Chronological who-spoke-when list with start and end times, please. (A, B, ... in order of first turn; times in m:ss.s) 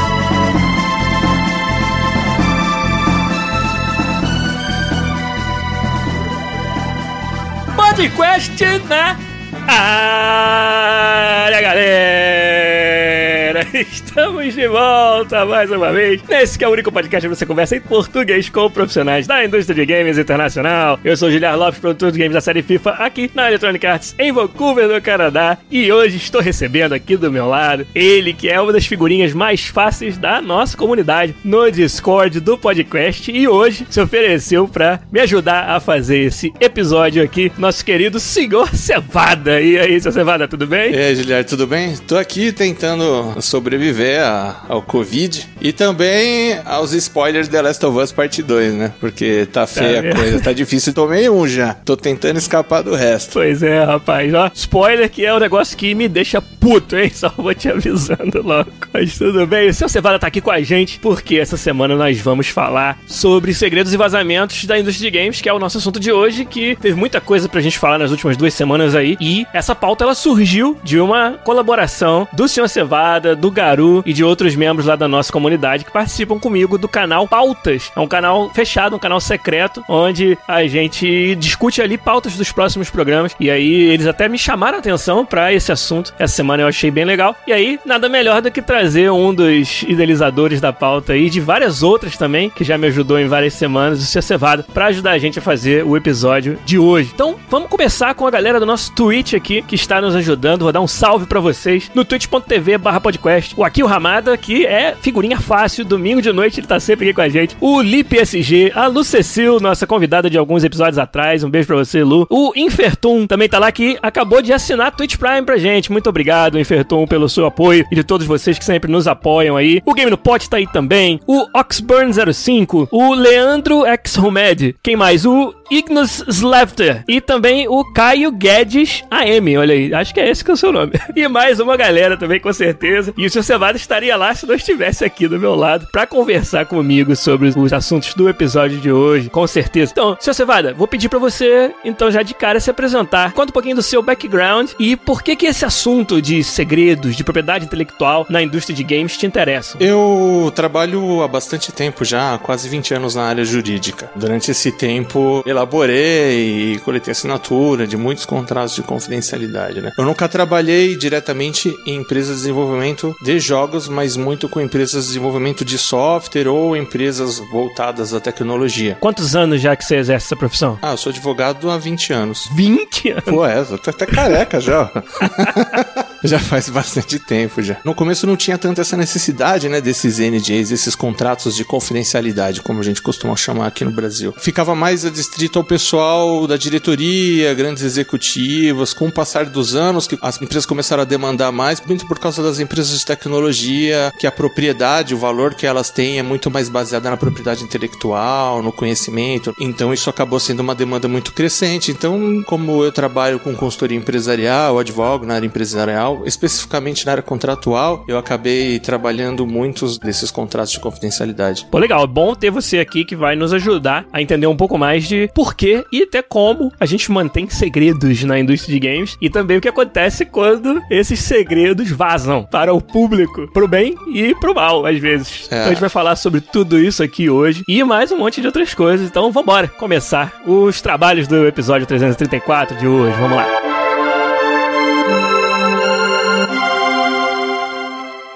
0:07.7-0:41.0 A
0:40.9-0:53.3 B
0:49.8-0:50.5 A
0:53.3-2:29.8 A
2:29.8-2:49.0 B
2:49.0-2:50.8 A
2:50.8-2:52.5 B
2:52.5-2:53.4 A
2:53.2-3:31.6 B
2:55.2-2:55.6 A
3:31.7-3:53.5 A
3:45.5-3:45.8 B